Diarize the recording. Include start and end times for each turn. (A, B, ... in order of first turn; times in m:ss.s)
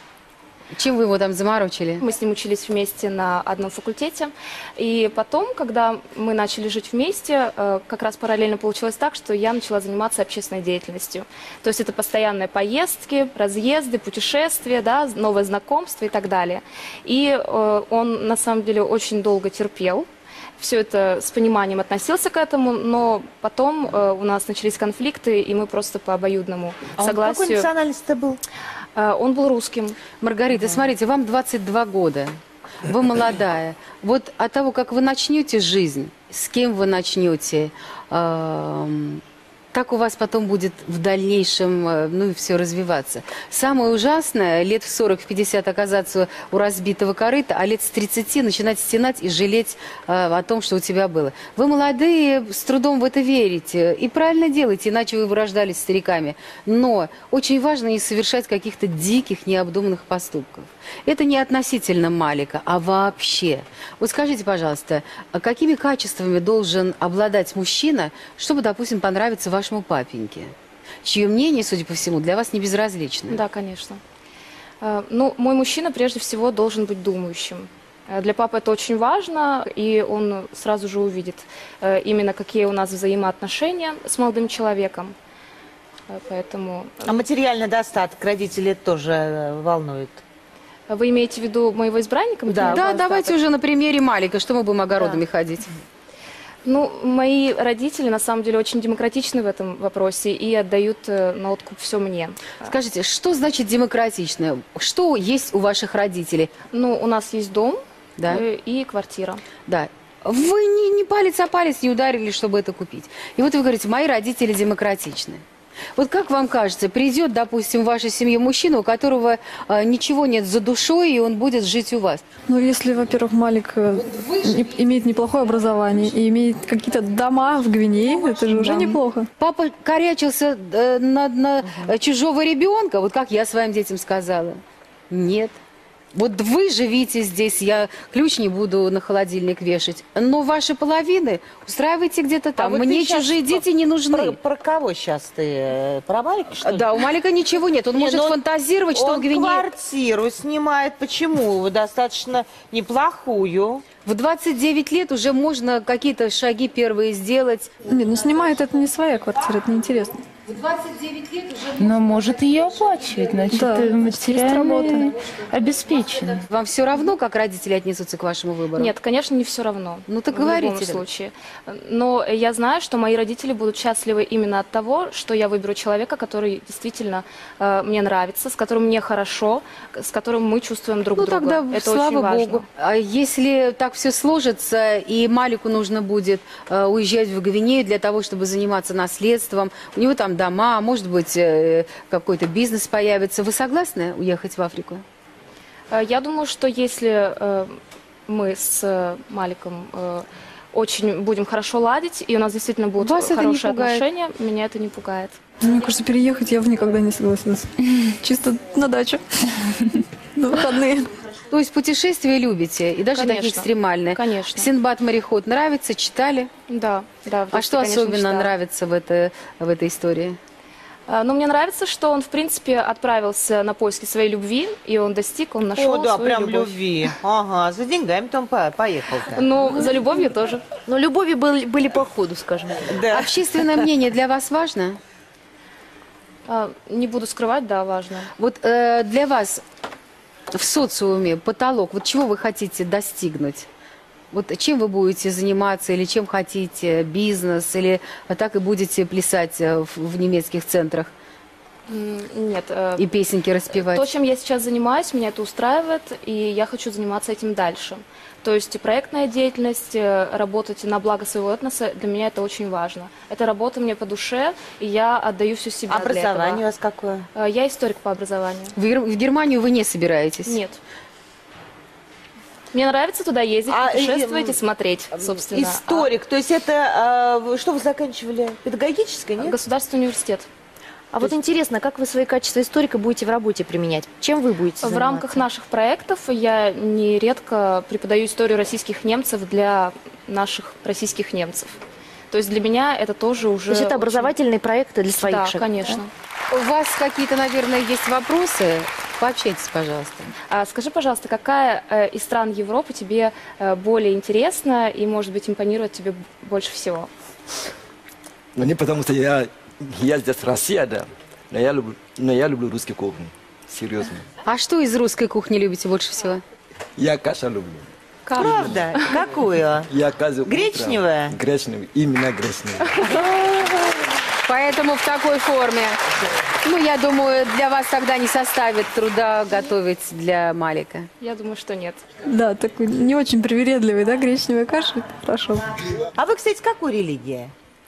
0:00.7-0:02.0 A
0:02.0-0:20.1 B
0:20.6-0:27.7 B
0:27.0-0:28.4 C
0:29.0-0:30.0 B
0:30.2-0:39.2 A
0:39.7-1:10.5 A
1:11.0-1:13.4 A
1:13.3-1:14.0 B
1:14.8-1:25.2 B
1:26.1-1:27.2 B
1:27.0-1:30.2 C
1:30.9-1:33.4 B
1:32.5-1:32.9 C
1:32.7-1:35.7 A
1:36.6-1:42.7 B
1:42.6-1:46.5 A
1:46.7-1:49.4 B
1:48.2-1:48.4 A
1:49.7-1:55.4 A
1:56.0-2:02.2 A
2:02.5-2:09.3 D
2:09.4-2:15.6 A
2:16.1-2:24.4 A
2:22.6-2:26.9 C
2:26.6-2:29.7 A
2:28.0-2:28.4 C
2:28.9-2:33.8 C
2:34.1-2:37.7 A
2:37.9-2:40.2 D
2:40.5-2:41.4 A
2:41.7-2:46.4 E
2:43.5-2:45.1 D
2:46.5-2:48.9 A
2:48.8-3:02.7 B
2:50.1-2:51.0 A
3:01.2-3:15.0 A
3:15.9-3:25.4 B
3:23.0-3:24.0 A
3:25.6-3:31.1 D
3:31.5-3:36.5 A
3:33.1-3:34.7 B
3:36.7-3:38.5 B
3:37.5-3:40.4 A
3:41.1-3:46.8 B
3:45.8-3:49.5 C
3:49.3-3:50.6 B
3:50.9-3:52.9 F
3:52.9-3:53.3 C
3:53.1-3:55.0 A
3:56.5-3:58.3 B
3:58.4-3:59.6 A
4:00.5-4:03.7 A
4:04.3-4:11.1 A
4:11.9-4:13.1 B
4:13.0-4:14.1 A
4:13.7-4:26.7 B
4:25.9-4:27.2 C
4:27.4-4:28.7 B
4:28.8-4:30.6 A
4:30.4-4:30.8 B
4:32.7-4:36.1 B
4:33.7-4:34.6 C
4:35.1-4:39.6 C
4:39.4-4:40.5 B
4:41.1-4:45.4 F
4:44.8-4:51.8 B
4:52.3-4:54.3 B
4:53.7-4:56.0 F
4:55.2-4:56.1 B
4:56.5-5:00.3 A
5:00.5-5:07.1 B
5:08.6-5:14.3 G
5:14.4-5:16.4 A
5:17.0-5:18.8 G
5:18.3-5:18.5 A
5:18.4-5:19.9 C
5:19.9-5:22.9 G
5:20.5-5:21.3 C
5:24.4-5:26.0 A
5:26.6-5:31.1 A
5:31.2-5:32.0 B
5:32.3-5:35.7 D
5:36.2-5:37.5 C